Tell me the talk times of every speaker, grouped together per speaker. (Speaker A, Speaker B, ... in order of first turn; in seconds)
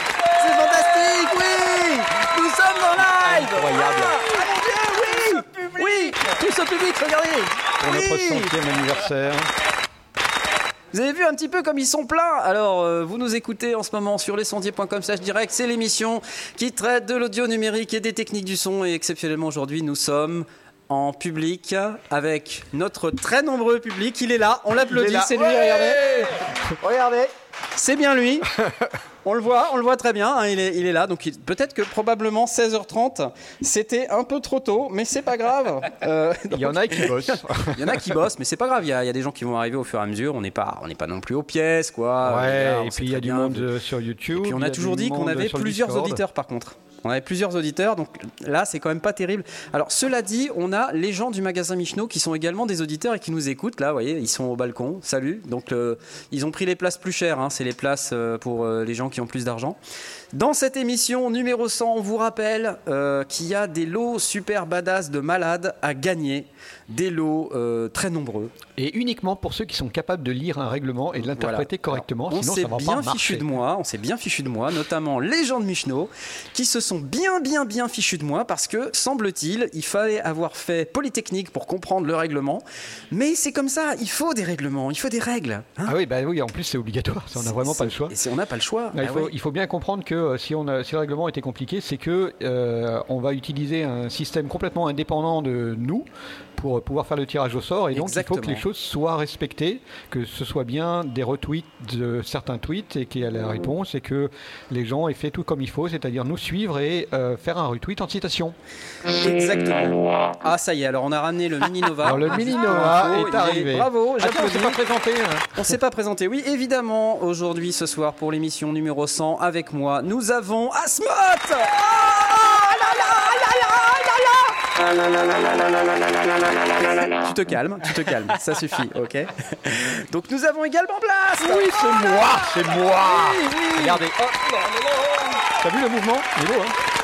Speaker A: 0.3-8.5, 10.9-28.5, 29.2-43.7, 44.3-59.8, 60.3-68.5, 71.2-86.0, 87.4-89.3, 97.9-98.7, 109.1-114.8, 115.5-124.6, 126.7-131.8, 132.7-134.0
Speaker B: 3.0-4.3, 7.8-9.5, 24.8-26.3, 28.6-28.9, 36.5-38.2, 42.2-46.2, 68.8-73.5, 85.9-88.2, 88.9-108.6, 112.0-115.8, 131.4-136.8